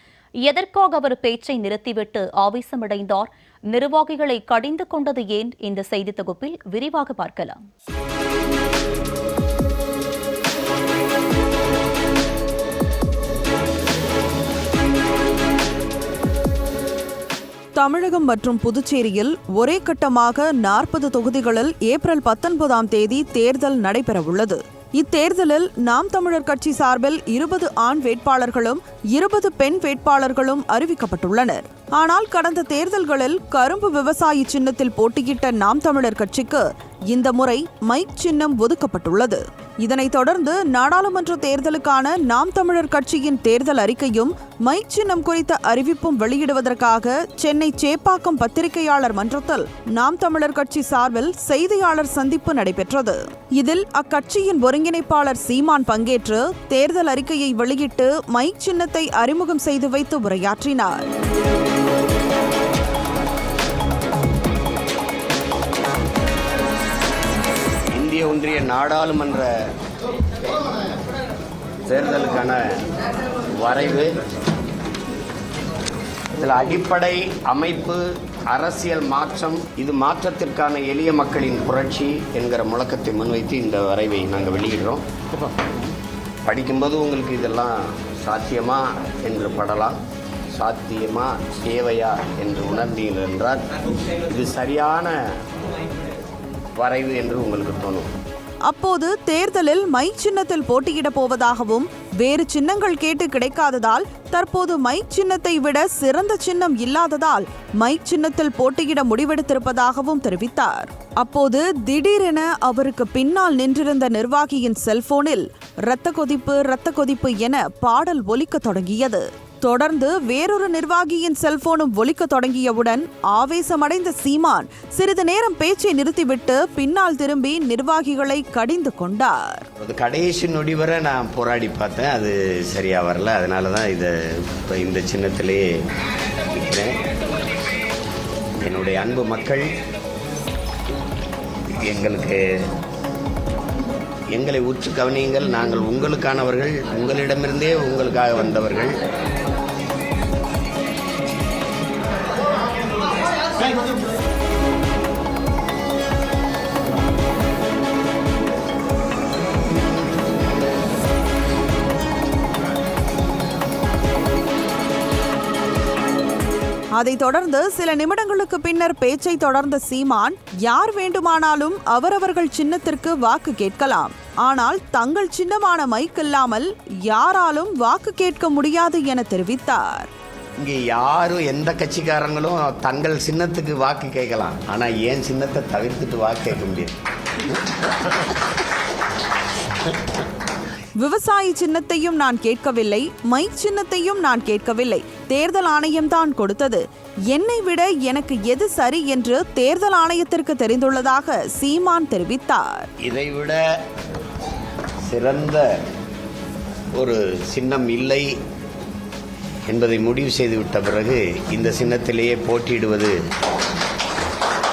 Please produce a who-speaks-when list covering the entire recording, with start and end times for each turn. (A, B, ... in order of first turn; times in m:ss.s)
0:00.4-0:07.6 A
0:17.7-1:01.0 B
1:07.9-1:09.7 C
1:11.8-1:12.8 C
1:13.5-1:14.1 C
1:16.3-1:25.0 C
1:26.4-1:30.0 C
1:30.5-1:35.2 C
1:36.7-1:38.1 C
1:38.6-2:09.7 B
2:09.8-2:15.7 C
2:16.5-2:17.0 C
2:18.6-2:19.7 C
2:21.8-2:22.4 C
2:24.3-2:29.0 C
2:47.0-3:00.1 B
3:00.6-3:07.0 C
3:11.0-3:22.9 B
3:23.0-3:23.6 C
3:25.1-3:25.7 C
3:26.9-3:28.3 C
3:29.7-3:33.2 C